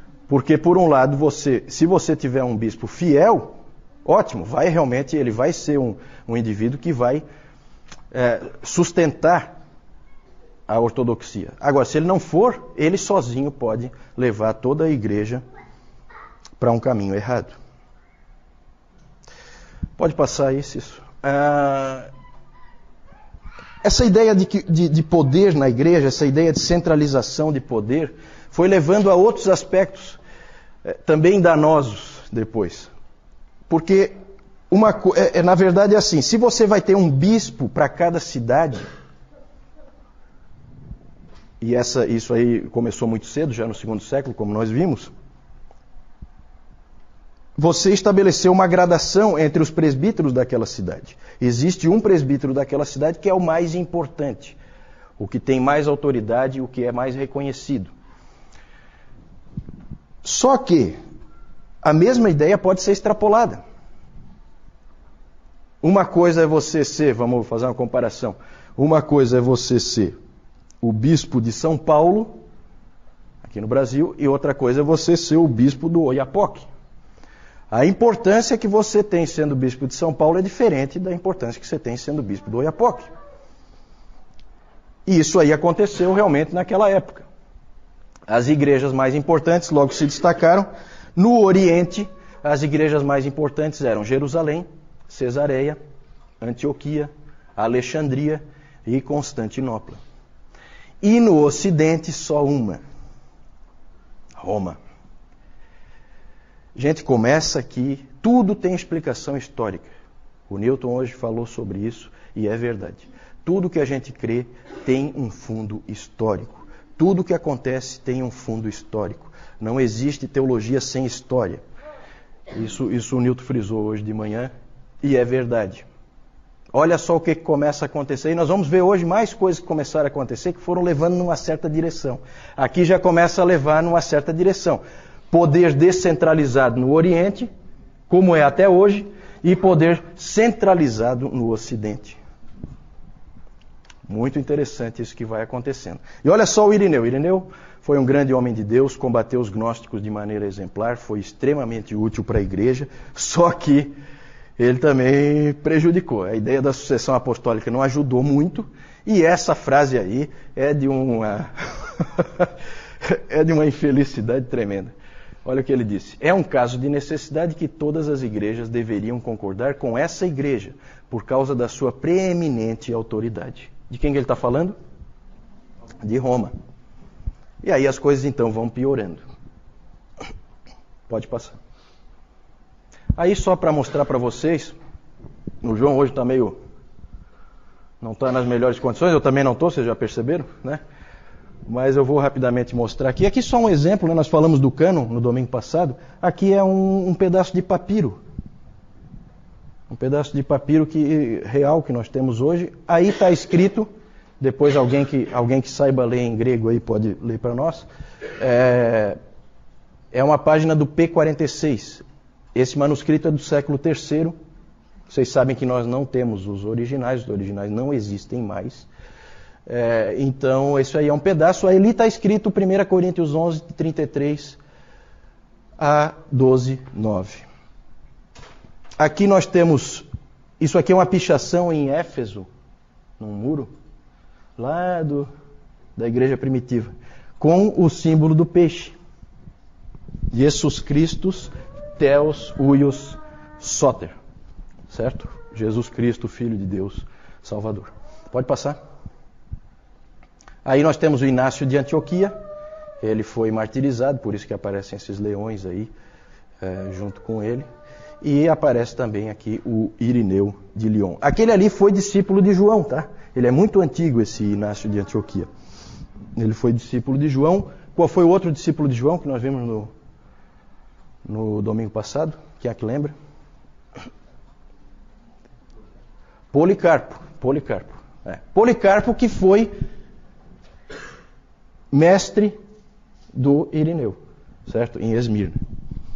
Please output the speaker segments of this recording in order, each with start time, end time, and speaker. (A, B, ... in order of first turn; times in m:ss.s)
0:00.3-0:07.2 A
0:08.1-0:09.5 A
0:10.7-0:15.4 A
0:16.6-0:17.6 A
0:20.0-0:22.1 A
0:23.8-0:30.2 A
0:30.8-0:32.9 A
0:33.7-0:34.2 A
0:34.7-0:38.8 A
0:41.6-0:45.1 A
0:47.6-0:54.6 A
0:55.2-0:57.9 A
1:00.2-1:01.0 A
1:01.8-1:03.6 A
1:05.8-1:10.2 A
1:10.8-1:12.4 A
1:13.4-1:16.7 A
1:17.7-1:23.1 A
1:25.0-1:27.2 A
1:28.3-1:35.8 A
1:36.4-1:40.0 A
1:41.0-1:42.8 A
1:44.4-1:44.8 A
1:46.7-1:49.9 A
1:50.5-2:01.6 A
2:02.5-2:05.8 A
2:06.7-2:17.5 A
2:18.1-2:22.2 A
2:24.1-2:33.9 A
2:34.6-2:42.5 A
2:43.0-2:44.9 A
2:45.4-2:54.8 A
2:56.0-2:56.5 A
2:57.6-2:59.2 A
3:01.1-3:01.6 A
3:03.2-3:04.8 A
3:05.6-3:06.6 A
3:08.0-3:10.8 A
3:11.6-3:18.2 A
3:19.9-3:23.9 A
3:24.4-3:29.2 A
3:30.1-3:32.0 A
3:32.5-3:34.4 A
3:35.1-3:38.9 A
3:39.7-3:44.6 A
3:45.8-3:47.4 A
3:49.0-3:50.0 A
3:50.6-3:52.5 A
3:53.2-3:53.7 A
3:54.6-3:55.3 A
3:56.0-3:58.9 A
4:00.3-4:04.2 A
4:04.9-4:08.8 A
4:10.6-4:12.4 A
4:13.0-4:15.9 A
4:16.6-4:17.6 A
4:18.2-4:25.5 A
4:26.3-4:29.9 A
4:31.2-4:33.1 A
4:36.5-4:39.7 A
4:41.9-4:42.6 A
4:43.3-4:45.6 A